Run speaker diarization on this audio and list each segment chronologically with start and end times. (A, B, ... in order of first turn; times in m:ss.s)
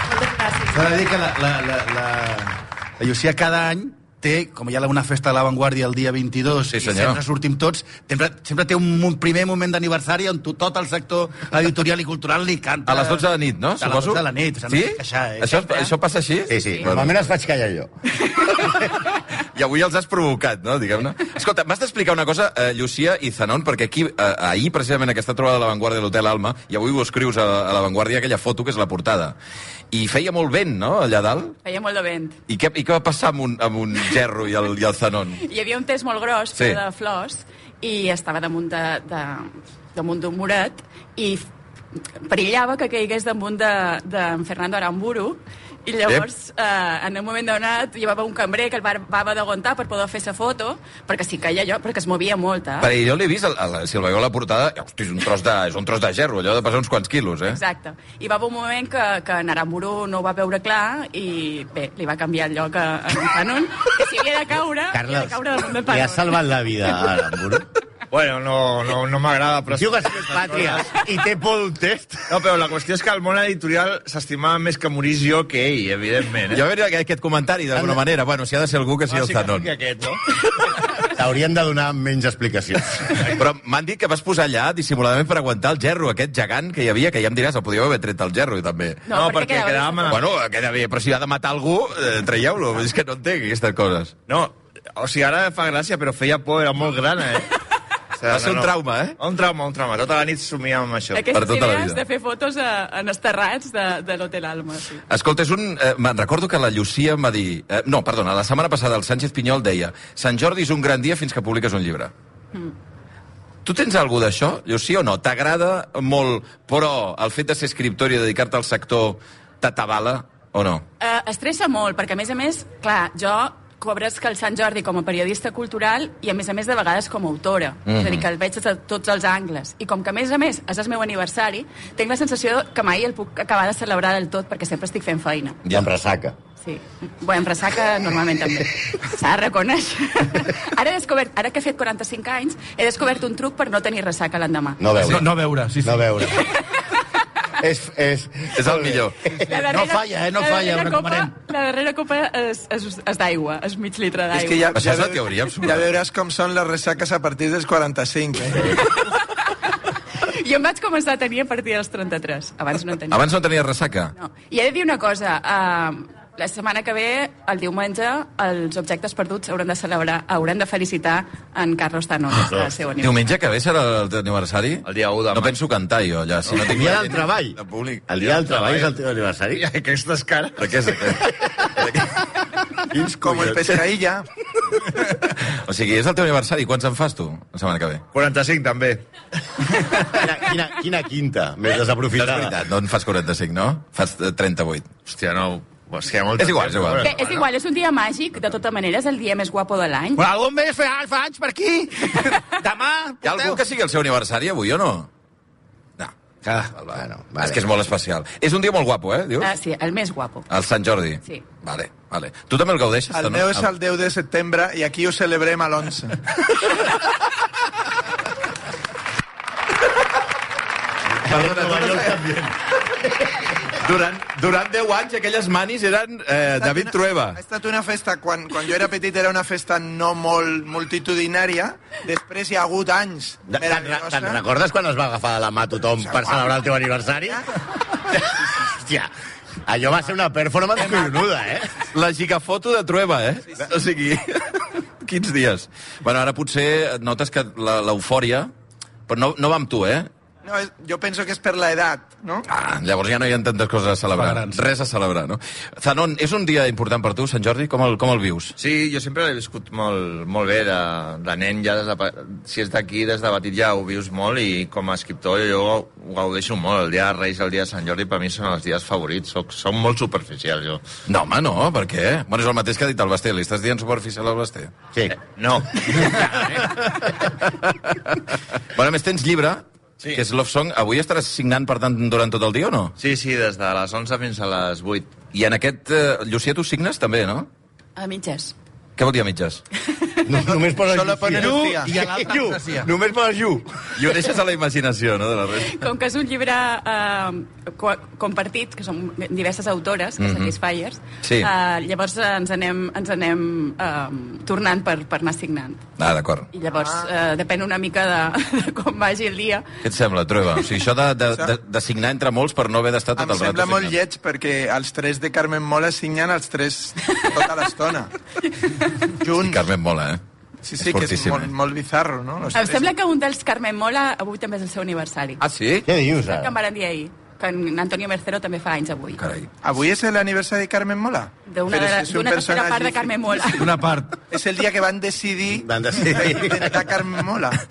0:00.3-0:15.9 A
0:06.7-0:07.2 B
0:12.8-0:17.2 B
0:16.5-0:17.9 C
0:18.7-0:29.4 B
0:29.9-0:31.5 B
0:31.6-0:32.4 D
0:32.5-0:35.4 B
0:35.4-0:41.5 D
0:42.2-0:52.9 D
0:52.8-0:57.6 B
0:57.5-1:06.5 D
1:04.9-1:07.6 C
1:08.1-1:11.0 E
1:09.7-1:12.3 C
1:12.3-1:16.6 E
1:16.5-1:19.7 B
1:17.7-1:18.0 C
1:19.1-1:20.2 E
1:21.1-1:23.2 C
1:23.4-1:29.0 B
1:29.0-1:30.2 D
1:29.1-1:30.2 E
1:30.1-1:34.1 B
1:34.3-1:37.5 E
1:38.1-1:41.3 E
1:38.3-1:39.2 B
1:41.1-1:45.0 D
1:41.3-1:42.0 B
1:45.1-1:52.1 B
1:53.6-2:00.8 B
2:01.0-2:15.6 D
2:07.9-2:08.2 B
2:15.7-2:16.4 C
2:16.6-2:24.8 D
2:24.8-2:25.3 C
2:25.0-2:26.3 A
2:25.8-2:26.4 C
2:26.4-2:26.6 D
2:27.6-2:29.3 C
2:28.5-2:29.2 B
2:29.4-2:31.3 A
2:29.4-2:34.7 D
2:34.3-2:38.8 F
2:34.7-2:35.9 B
2:38.7-2:39.3 D
2:40.2-2:43.2 D
2:43.1-2:44.1 B
2:44.1-2:53.4 D
2:52.5-2:52.8 C
2:53.0-2:58.3 B
2:54.8-2:55.6 E
2:56.6-2:57.6 C
2:58.1-2:59.7 C
2:58.3-2:58.9 E
2:59.6-3:01.2 E
3:00.6-3:02.3 B
3:02.9-3:03.8 C
3:03.2-3:04.3 F
3:05.0-3:08.0 B
3:08.1-3:09.1 E
3:10.1-3:12.6 C
3:12.2-3:14.9 B
3:15.1-3:17.4 E
3:16.4-3:17.1 B
3:16.9-3:17.3 C
3:17.0-3:20.2 D
3:20.2-3:23.6 A
3:23.2-3:25.1 B
3:26.4-3:26.8 A
3:26.8-3:29.5 B
3:26.9-3:27.6 C
3:29.4-3:30.5 D
3:30.5-3:33.7 B
3:33.1-3:36.2 F
3:41.2-3:42.5 C
3:41.3-3:42.0 F
3:41.6-3:42.4 B
3:43.1-3:43.4 C
3:43.7-3:47.4 B
3:46.6-3:54.4 F
3:53.5-3:59.1 C
3:56.0-3:56.5 F
3:59.6-4:01.8 C
4:01.9-4:08.5 B
4:09.1-4:10.1 B
4:10.4-4:12.4 F
4:12.5-4:18.5 B
4:14.1-4:14.8 A
4:18.6-4:30.8 E
4:31.1-4:34.7 B
4:35.3-4:36.7 E
4:36.7-4:42.9 B
4:43.0-4:45.2 E
4:45.3-4:47.5 B
4:48.0-4:48.5 D
4:49.0-4:49.6 B
4:50.2-4:53.9 C
4:50.8-4:52.0 F
4:51.3-4:52.9 A
4:54.0-4:55.8 B
4:55.6-5:05.8 D
5:00.2-5:00.5 B
5:01.2-5:01.5 B
5:06.0-5:06.5 B
5:06.5-5:09.7 D
5:09.8-5:14.0 B
5:13.2-5:18.1 F
5:19.2-5:19.7 F
5:19.3-5:20.2 B
5:20.6-5:22.9 F
5:20.8-5:21.5 B
5:22.5-5:25.4 D
5:25.4-5:25.9 B
5:25.8-5:26.5 C
5:26.3-5:29.2 D
5:29.2-5:29.5 B
5:29.6-5:33.5 F
5:31.4-5:33.7 D
5:33.6-5:34.2 A
5:34.3-5:37.6 F
5:35.5-5:36.7 C